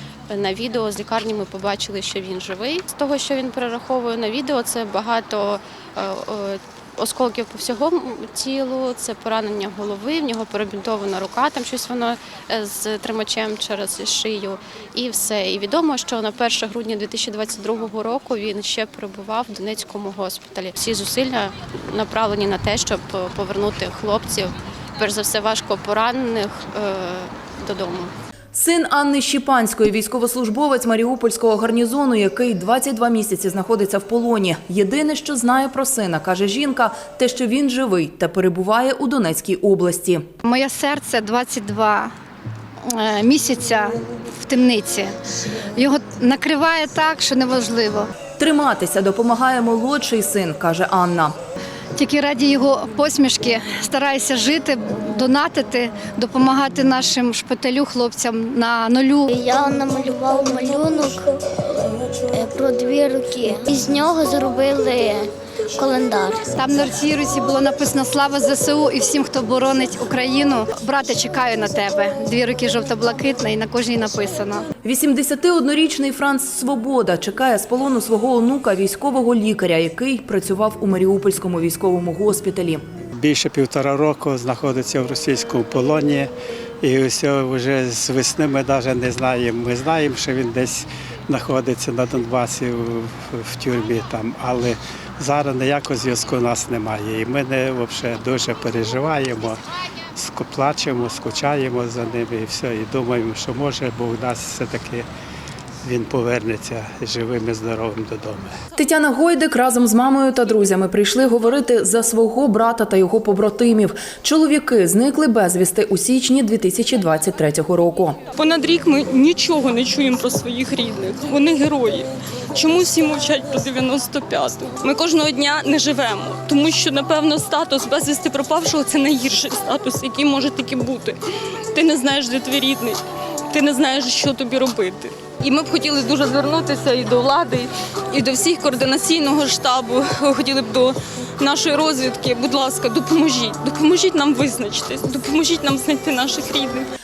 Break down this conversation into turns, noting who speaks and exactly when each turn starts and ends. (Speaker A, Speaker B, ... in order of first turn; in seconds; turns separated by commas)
Speaker A: 0.3-28.1, Speaker B: 28.5-40.2, Speaker C: 40.4-42.1, Speaker C: 42.9-45.1, Speaker C: 45.8-48.1, Speaker B: 48.4-51.3, Speaker C: 52.0-59.3, Speaker D: 59.3-61.4, Speaker D: 62.2-66.5, Speaker C: 66.5-74.6, Speaker B: 74.8-82.8, Speaker E: 83.2-86.3, Speaker E: 86.8-99.6, Speaker E: 100.1-105.0, Speaker E: 105.8-108.6, Speaker B: 108.8-118.2, Speaker F: 118.3-146.9